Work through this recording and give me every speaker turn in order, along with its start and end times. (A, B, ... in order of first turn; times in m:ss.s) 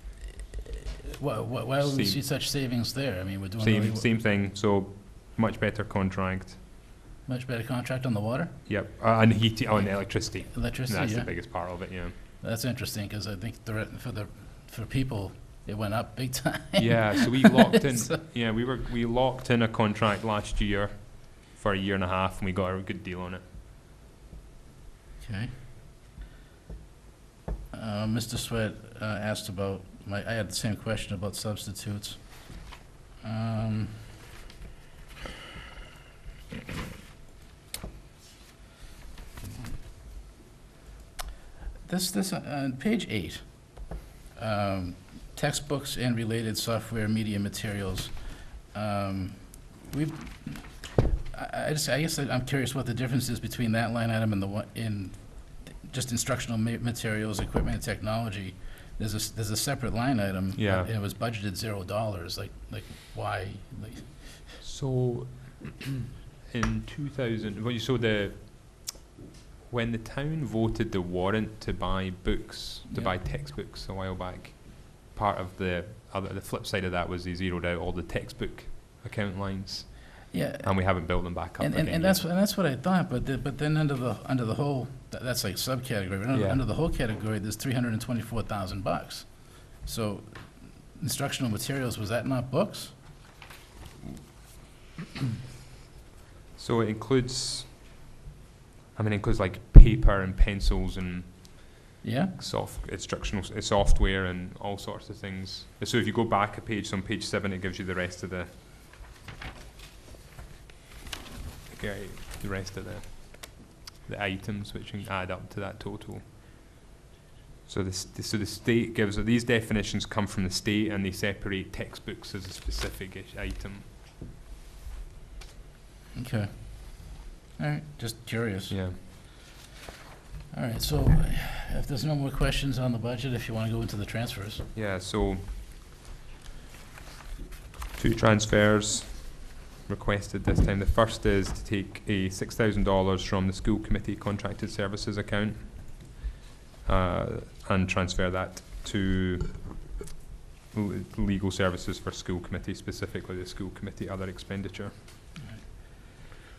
0:00.7-0:04.1 A
0:01.8-0:02.2 B
0:03.6-0:06.6 B
0:07.3-0:08.9 A
0:08.7-0:12.2 B
0:09.7-0:18.2 A
0:16.8-0:23.4 B
0:25.2-0:25.5 A
0:27.7-0:34.0 A
0:41.8-1:04.6 A
1:00.5-1:00.9 B
1:04.6-1:05.9 B
1:06.5-1:09.0 B
1:09.7-1:22.3 B
1:12.9-1:13.2 A
1:20.3-1:33.0 A
1:26.3-1:26.6 B
1:36.6-1:37.8 B
1:39.0-1:41.8 B
1:42.0-1:42.4 A
1:42.4-1:48.5 B
1:51.7-1:56.3 B
1:57.7-2:03.9 B
2:06.2-2:09.3 A
2:08.7-2:09.0 B
2:10.5-2:14.7 A
2:14.7-2:15.5 B
2:18.0-2:26.2 B
2:26.8-2:29.9 B
2:30.7-2:34.9 B